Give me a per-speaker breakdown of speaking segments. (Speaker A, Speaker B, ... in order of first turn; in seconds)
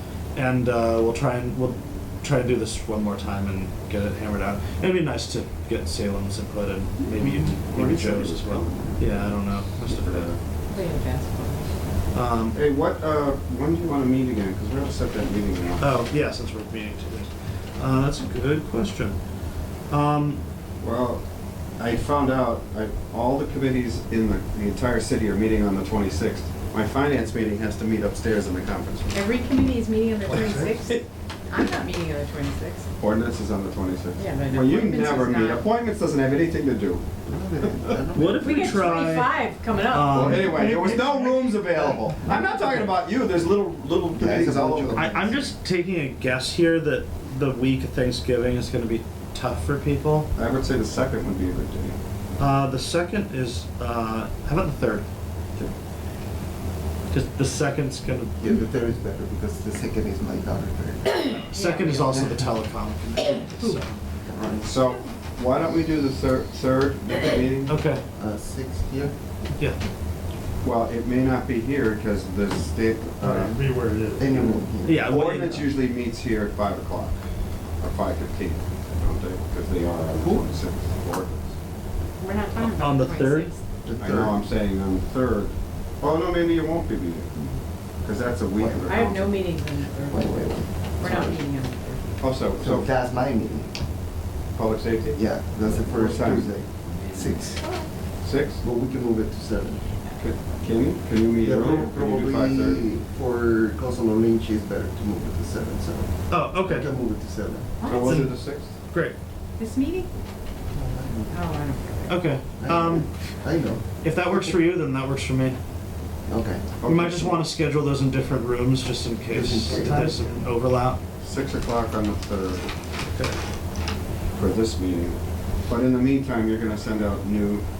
Speaker A: 0.3-10.3, 12.1-12.6, 15.8-19.2, 19.9-20.4, 30.2-31.0, 38.1-41.4, 44.9-50.3, 52.4-55.1, 57.1-58.4, 61.2-64.0, 67.7-68.0, 73.2-75.7, 82.6-83.5, 106.3-106.9, 108.0-108.4, 108.9-109.2, 112.1-113.1, 114.0-115.6, 116.8-121.0, 123.0-123.4
Speaker B: 7.1-9.1, 9.8-10.4, 12.5-15.9, 20.8-21.2, 21.8-29.2, 33.0-37.1, 40.0-45.4, 50.3-52.0, 64.5-67.8, 70.6-73.6, 75.0-77.2, 77.8-81.6, 84.0-87.3, 88.0-89.5, 92.2-93.0, 94.5-97.1, 98.2-98.6, 100.2-102.9, 107.8-108.7, 116.8-117.5, 121.2-122.7, 124.3-127.6
Speaker C: 10.7-11.7, 29.1-32.9, 34.1-35.6, 38.4-40.7, 61.5-62.5, 82.2-83.6, 88.9-92.2, 107.8-108.3, 109.6-110.1, 111.3-112.2
Speaker D: 37.2-39.0, 44.1-45.3, 58.4-61.3, 64.2-64.8, 68.1-69.1, 73.2-73.5, 74.2-75.0, 80.1-80.5, 83.8-84.4, 88.5-88.9, 90.1-91.4, 92.5-93.7, 95.1-97.6, 98.6-99.8, 101.4-107.7, 110.7-111.3, 112.6-114.5, 116.3-116.7, 119.3-120.3